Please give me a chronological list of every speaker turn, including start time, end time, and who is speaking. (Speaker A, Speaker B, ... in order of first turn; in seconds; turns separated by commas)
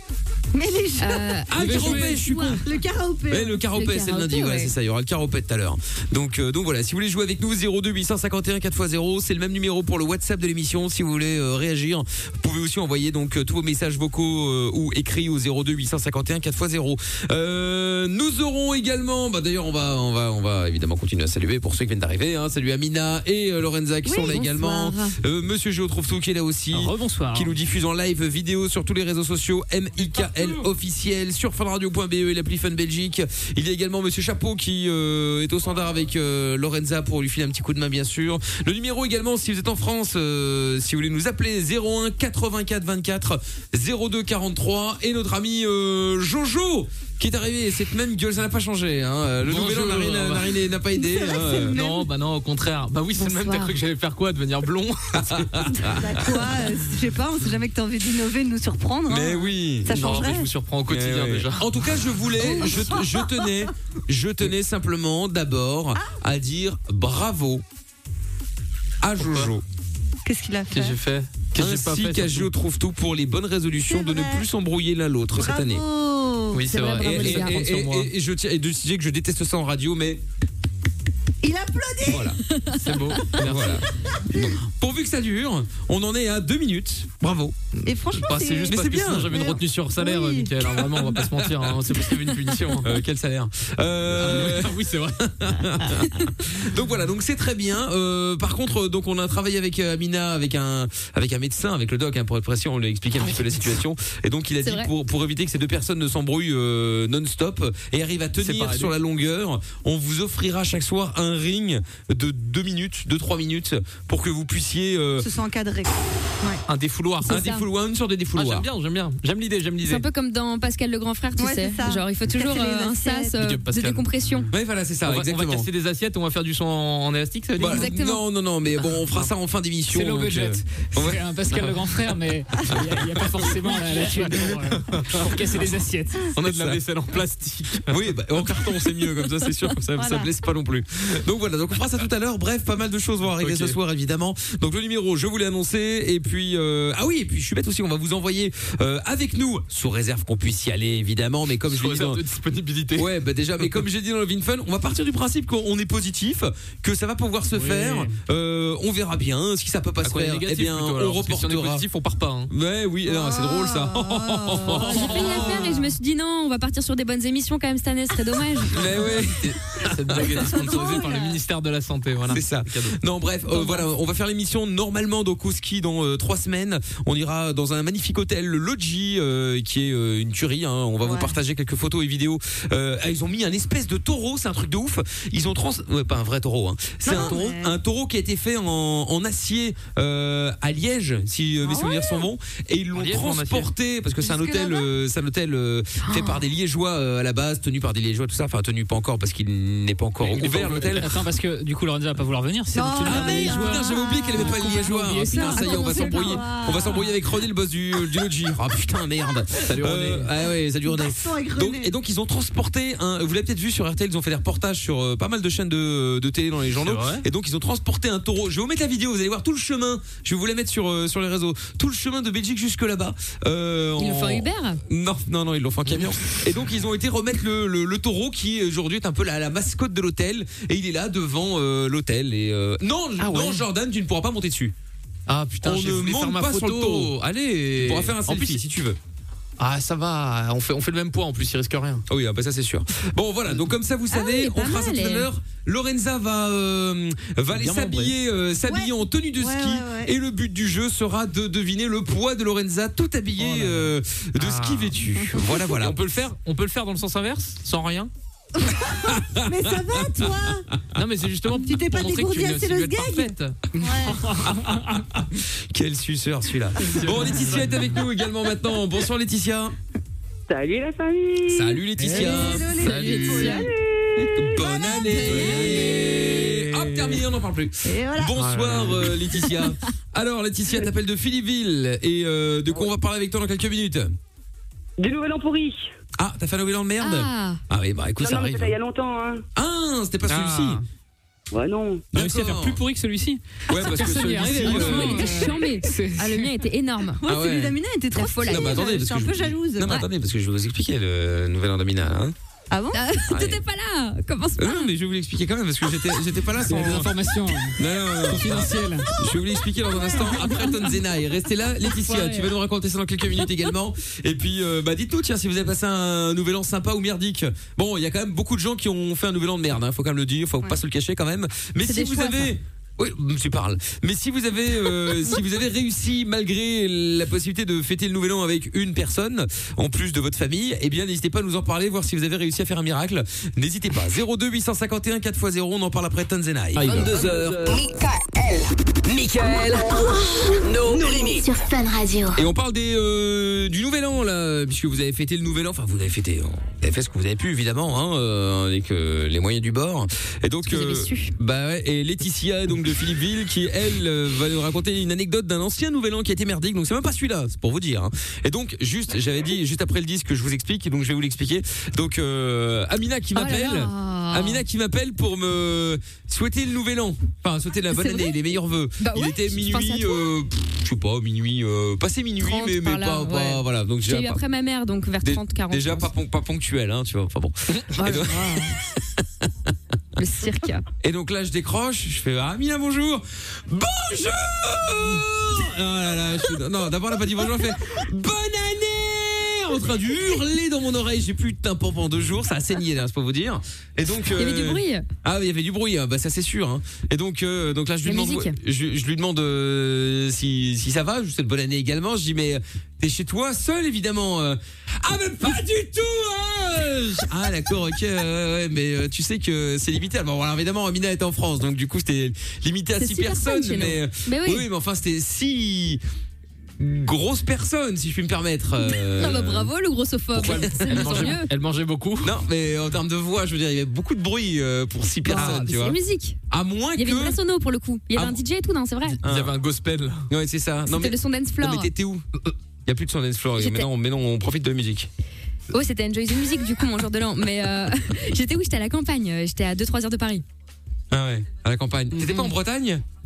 Speaker A: 0.5-1.4, Speaker B: 1.0-2.6, Speaker C: 1.5-2.7, Speaker D: 1.6-2.2, Speaker A: 2.6-3.6, Speaker C: 3.3-51.8, Speaker B: 3.7-4.7, Speaker B: 24.1-25.1, Speaker D: 26.7-27.5, Speaker D: 30.0-30.7, Speaker E: 49.5-50.6, Speaker A: 51.0-52.1, Speaker E: 51.6-55.7, Speaker B: 53.2-53.7, Speaker C: 55.2-56.4, Speaker A: 55.9-60.5, Speaker C: 59.1-60.3, Speaker E: 59.9-61.7, Speaker C: 60.9-67.6, Speaker A: 62.4-63.7, Speaker C: 69.0-69.6, Speaker E: 69.2-69.5, Speaker A: 70.2-71.0, Speaker E: 70.7-72.5, Speaker C: 71.6-75.8, Speaker A: 73.8-74.5, Speaker A: 75.4-76.7, Speaker E: 76.5-78.1, Speaker B: 76.7-77.6, Speaker C: 77.2-80.2, Speaker A: 81.4-82.3, Speaker C: 82.1-82.4, Speaker B: 82.6-83.3, Speaker E: 82.8-83.8, Speaker C: 83.4-87.6, Speaker A: 87.9-90.6, Speaker E: 87.9-93.0, Speaker C: 88.7-89.4, Speaker C: 91.0-91.9, Speaker C: 92.8-115.3, Speaker E: 94.1-95.3, Speaker B: 104.6-104.9, Speaker E: 108.4-108.9, Speaker A: 115.2-116.6, Speaker E: 116.7-117.4, Speaker C: 117.2-118.7, Speaker B: 117.3-117.7, Speaker E: 118.3-120.0, Speaker B: 119.8-124.5, Speaker A: 121.4-123.3, Speaker E: 123.3-124.1, Speaker C: 124.5-125.7, Speaker E: 125.0-127.9, Speaker C: 127.6-131.2, Speaker B: 127.6-128.2, Speaker D: 129.9-136.3, Speaker E: 134.9-135.5, Speaker E: 136.3-138.7, Speaker C: 136.4-136.8, Speaker C: 137.9-152.2, Speaker A: 140.0-140.3, Speaker E: 143.4-143.8, Speaker E: 151.7-153.1, Speaker C: 153.0-161.8, Speaker E: 157.6-157.8, Speaker D: 157.8-158.1, Speaker E: 160.0-162.5, Speaker C: 162.5-165.7, Speaker A: 163.1-165.0, Speaker B: 164.7-168.8, Speaker D: 164.8-165.7, Speaker C: 168.7-170.9, Speaker E: 169.5-173.0, Speaker A: 170.7-171.1, Speaker B: 170.7-171.3, Speaker C: 172.3-201.1, Speaker B: 173.5-173.8, Speaker A: 181.0-181.3, Speaker A: 187.1-187.8, Speaker B: 187.1-187.4, Speaker A: 191.7-192.2, Speaker E: 192.9-193.7, Speaker B: 194.2-194.9, Speaker B: 196.1-196.4, Speaker E: 200.2-201.2, Speaker D: 201.0-206.4, Speaker A: 202.7-204.7, Speaker C: 203.0-234.7, Speaker A: 205.4-207.2, Speaker E: 209.7-210.3, Speaker A: 210.8-211.9, Speaker E: 216.8-217.2, Speaker B: 224.0-224.8, Speaker E: 225.9-226.2, Speaker E: 233.2-233.6, Speaker E: 235.3-238.6, Speaker C: 235.6-237.1, Speaker C: 237.8-239.0, Speaker E: 239.6-242.1, Speaker C: 242.1-256.0, Speaker B: 244.1-245.3, Speaker E: 247.5-248.1, Speaker A: 248.7-250.1, Speaker E: 253.4-255.0, Speaker E: 255.8-258.1, Speaker A: 258.6-260.7, Speaker C: 259.0-260.4, Speaker E: 260.9-263.6, Speaker A: 261.6-264.2, Speaker D: 263.8-265.0, Speaker C: 264.4-269.8, Speaker E: 266.9-267.8, Speaker F: 270.5-271.8, Speaker C: 271.5-273.5, Speaker D: 272.0-272.5, Speaker A: 272.1-276.4, Speaker B: 272.5-273.7, Speaker E: 272.8-273.6, Speaker F: 273.6-274.5, Speaker C: 274.3-284.1, Speaker E: 275.1-277.2, Speaker A: 277.8-278.4, Speaker E: 278.3-279.1, Speaker A: 279.2-279.7, Speaker F: 285.0-285.9, Speaker C: 286.2-288.8, Speaker B: 287.0-287.6, Speaker F: 288.2-289.4, Speaker C: 289.6-290.8, Speaker E: 290.3-290.9, Speaker F: 291.5-292.1, Speaker C: 292.1-292.8, Speaker D: 292.1-296.5, Speaker C: 293.7-295.3, Speaker B: 294.6-297.2, Speaker A: 297.2-299.9, Speaker C: 297.3-297.8, Speaker B: 298.1-298.9, Speaker C: 298.5-302.3, Speaker B: 299.8-300.1, Speaker A: 302.7-303.0, Speaker B: 302.9-304.9, Speaker C: 303.3-303.6, Speaker C: 304.6-307.1, Speaker D: 306.6-309.1, Speaker C: 307.8-337.8, Speaker B: 310.1-310.7, Speaker B: 311.9-312.5, Speaker B: 321.8-322.5, Speaker E: 336.8-337.4, Speaker G: 336.9-337.9, Speaker G: 339.1-341.6, Speaker H: 339.9-342.5, Speaker C: 342.4-374.4, Speaker B: 350.7-351.3, Speaker B: 363.4-364.6, Speaker B: 367.9-368.3, Speaker B: 369.0-370.3, Speaker B: 372.4-376.1, Speaker C: 375.2-379.1, Speaker B: 378.0-378.8, Speaker B: 380.2-380.8, Speaker C: 381.0-416.0, Speaker B: 394.3-395.1, Speaker B: 398.1-398.6, Speaker B: 413.0-414.7, Speaker C: 416.8-419.7, Speaker B: 418.9-421.5, Speaker C: 420.3-421.4, Speaker E: 420.4-422.3, Speaker C: 422.2-426.0, Speaker B: 425.3-426.4, Speaker C: 426.5-427.4, Speaker B: 427.0-429.2, Speaker C: 428.1-428.4, Speaker C: 429.2-429.5, Speaker E: 429.2-430.2, Speaker C: 430.3-432.3, Speaker B: 430.9-431.9, Speaker C: 432.9-435.1, Speaker B: 433.6-433.9, Speaker B: 435.7-440.4, Speaker C: 441.1-443.0, Speaker D: 442.1-442.5